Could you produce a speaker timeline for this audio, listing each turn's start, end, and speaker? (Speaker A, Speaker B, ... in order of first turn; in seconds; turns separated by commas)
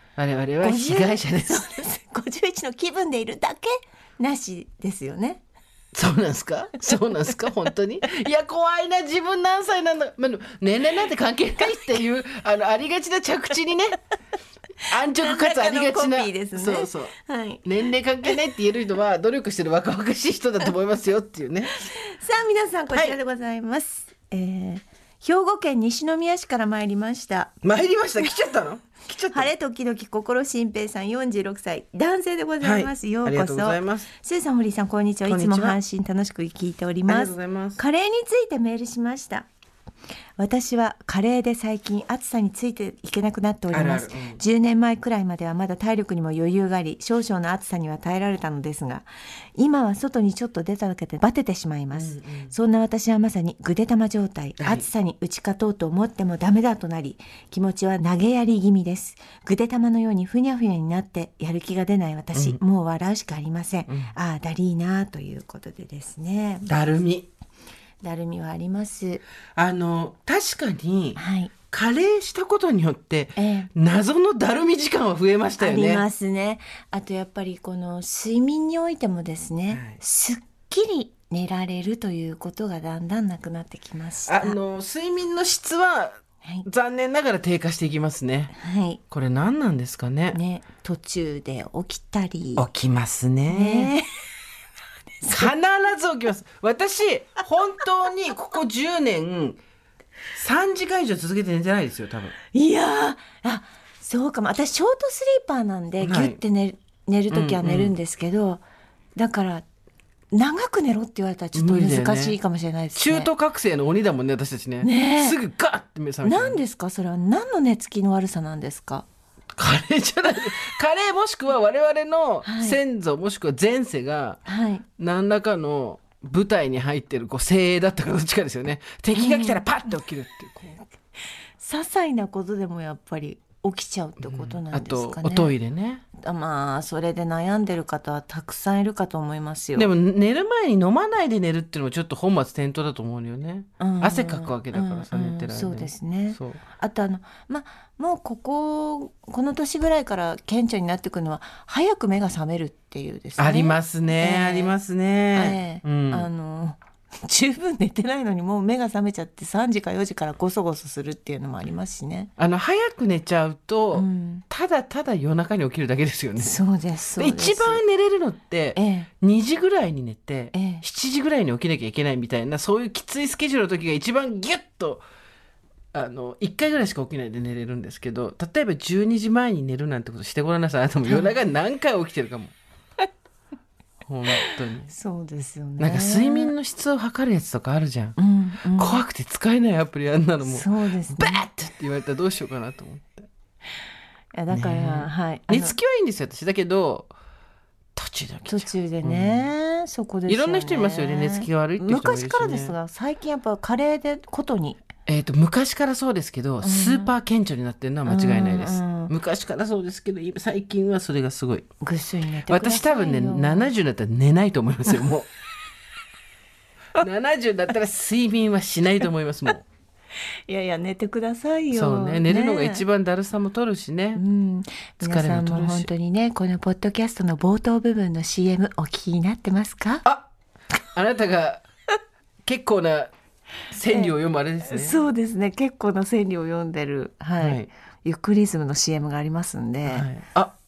Speaker A: 0.2-1.7, Speaker B: 0.6-5.4, Speaker A: 5.9-14.0, Speaker A: 14.9-17.1, Speaker B: 15.1-17.7, Speaker A: 17.6-21.8, Speaker B: 21.8-27.6, Speaker A: 27.6-29.5, Speaker B: 29.3-39.5, Speaker A: 32.6-34.1, Speaker A: 35.3-35.8, Speaker A: 37.1-37.8, Speaker B: 40.4-66.7, Speaker A: 43.7-44.4, Speaker A: 51.9-52.5, Speaker A: 54.6-54.9, Speaker A: 62.3-62.6, Speaker A: 63.9-64.1, Speaker A: 66.7-67.3, Speaker B: 68.0-69.2, Speaker A: 69.6-76.0, Speaker B: 71.2-71.5, Speaker B: 73.4-73.7, Speaker B: 75.6-84.6, Speaker A: 79.7-80.0, Speaker A: 84.3-88.5, Speaker B: 88.5-89.0, Speaker A: 89.1-90.4, Speaker B: 90.3-92.7, Speaker A: 92.6-93.9, Speaker B: 93.5-94.1, Speaker B: 95.2-95.5, Speaker A: 95.3-99.6, Speaker A: 100.3-102.3, Speaker B: 102.5-108.6, Speaker A: 106.0-106.4, Speaker A: 107.3-107.9, Speaker B: 109.2-109.7, Speaker B: 110.3-113.3, Speaker A: 111.5-112.4, Speaker A: 113.0-116.6, Speaker B: 114.8-115.4, Speaker B: 116.2-119.1, Speaker A: 119.6-124.4, Speaker B: 122.5-122.8, Speaker B: 124.5-124.8, Speaker A: 125.0-130.8, Speaker B: 129.1-129.7, Speaker B: 131.6-135.5, Speaker A: 134.2-136.0, Speaker B: 136.2-139.9, Speaker A: 139.8-146.6, Speaker B: 143.8-154.8, Speaker A: 153.4-156.3, Speaker B: 155.3-162.3, Speaker A: 162.4-166.6, Speaker B: 163.9-164.4, Speaker B: 166.4-167.8, Speaker A: 167.2-175.0, Speaker B: 168.8-169.1, Speaker B: 170.5-170.8, Speaker A: 175.9-182.5, Speaker B: 181.1-181.3, Speaker A: 184.1-184.9, Speaker B: 184.3-186.5, Speaker A: 185.8-188.2, Speaker B: 188.2-189.0, Speaker A: 188.8-193.3, Speaker B: 190.5-191.4, Speaker B: 194.3-195.8, Speaker A: 194.5-197.1, Speaker A: 197.9-199.5, Speaker B: 198.5-204.8, Speaker A: 200.3-202.7, Speaker A: 205.1-211.7, Speaker B: 206.6-207.1, Speaker B: 208.1-209.1, Speaker B: 211.8-213.7, Speaker A: 212.5-215.3, Speaker A: 216.9-219.7, Speaker B: 220.5-222.8, Speaker A: 221.7-224.2, Speaker B: 224.2-230.1, Speaker A: 225.0-225.9, Speaker A: 230.9-231.6, Speaker A: 232.4-233.1, Speaker A: 233.7-235.0, Speaker B: 234.7-240.1, Speaker A: 237.4-237.7, Speaker A: 239.9-240.6